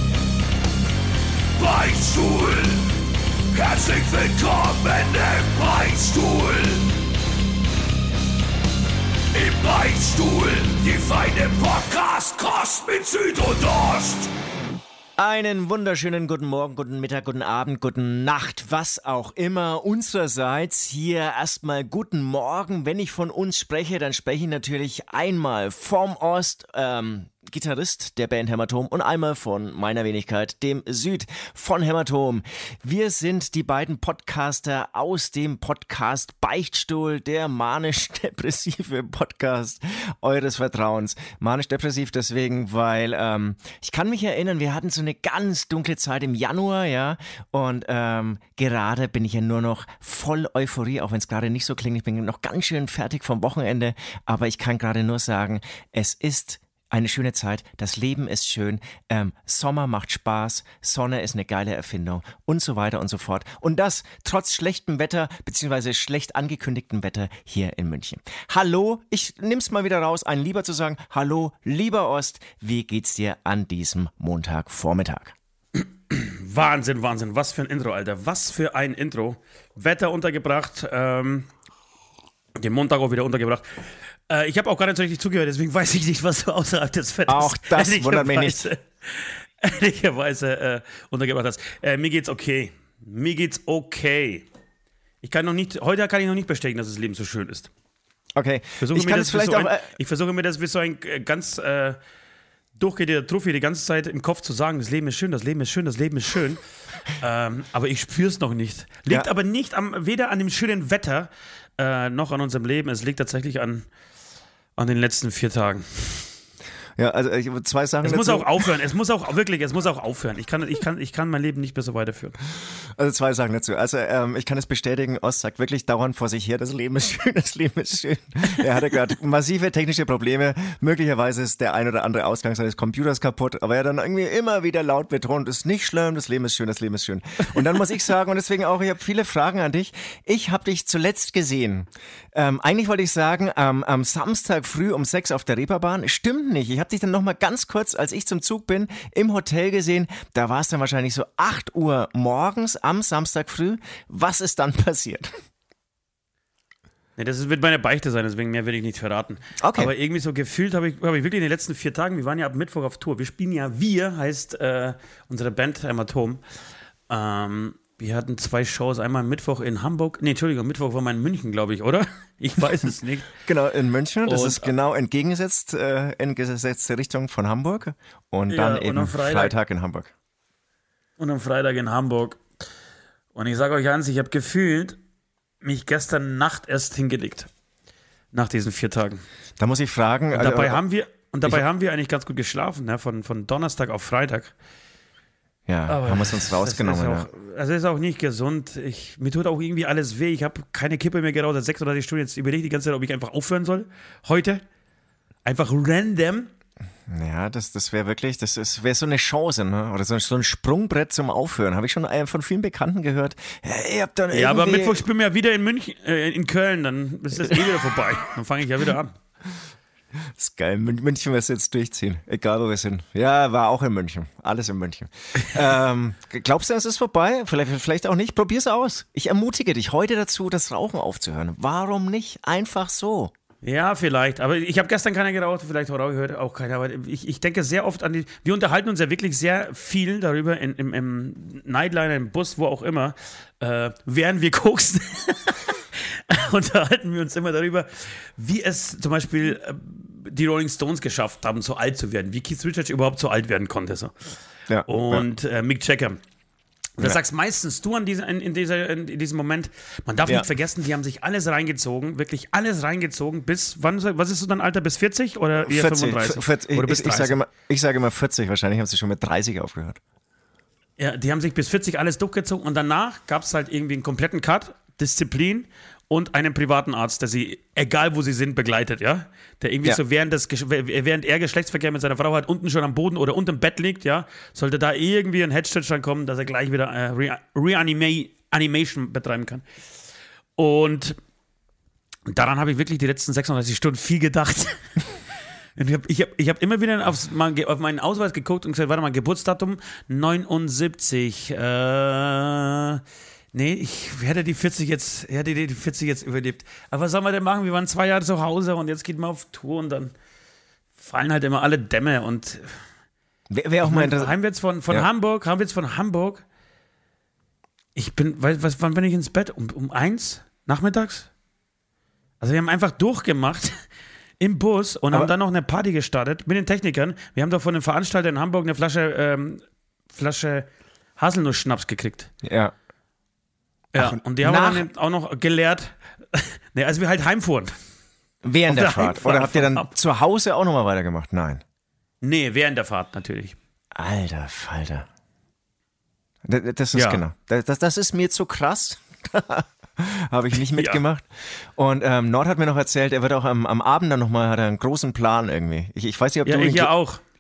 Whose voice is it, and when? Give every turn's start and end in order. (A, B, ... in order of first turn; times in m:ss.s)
0:01.6-0:03.0 A
0:03.5-0:06.9 A
0:09.3-0:14.3 A
0:15.2-1:15.3 B
1:15.8-1:21.5 C
1:22.6-1:23.6 C
1:24.3-1:34.4 C
1:27.3-1:28.7 B
1:35.2-1:37.7 C
1:38.3-1:39.9 B
1:38.8-1:42.0 C
1:42.8-1:46.6 C
1:47.1-1:53.9 C
1:54.8-1:56.3 C
1:57.0-1:58.6 B
1:58.0-2:02.4 C
2:02.9-2:35.3 B
2:37.2-2:46.4 C
2:39.6-2:39.9 B
2:47.1-2:53.3 C
2:53.4-3:00.1 B
2:54.2-2:54.7 C
2:58.5-2:59.5 C
3:01.2-3:02.4 C
3:03.3-3:05.0 C
3:05.6-3:07.5 C
3:08.3-3:09.2 C
3:09.6-3:10.8 B
3:10.3-3:14.5 C
3:15.7-3:17.3 B
3:15.9-3:24.6 C
3:25.4-3:26.5 C
3:27.1-3:35.0 B
3:34.3-3:39.2 C
3:40.4-3:53.3 B
3:53.6-4:14.1 C
4:14.7-4:15.2 B
4:14.8-4:16.2 C
4:17.0-4:27.4 C
4:25.6-4:30.0 B
4:31.0-4:49.6 C
4:50.6-4:51.2 C
4:52.3-4:54.8 C
4:55.8-5:03.0 C
5:03.5-5:10.1 C
5:11.0-5:12.8 C
5:13.5-5:14.3 B
5:13.8-5:16.4 C
5:18.0-5:21.3 C
5:22.4-5:23.8 C
5:24.4-5:32.3 C
5:32.4-5:32.7 B
5:33.9-5:37.7 C
5:34.0-5:34.8 B
5:38.4-5:41.6 B
5:38.7-5:39.9 C
5:42.2-5:43.5 C
5:43.9-5:45.1 B
5:46.4-5:51.2 B
5:46.9-5:47.2 C
5:50.7-5:51.0 C
5:51.8-5:56.9 B
5:56.4-5:57.2 C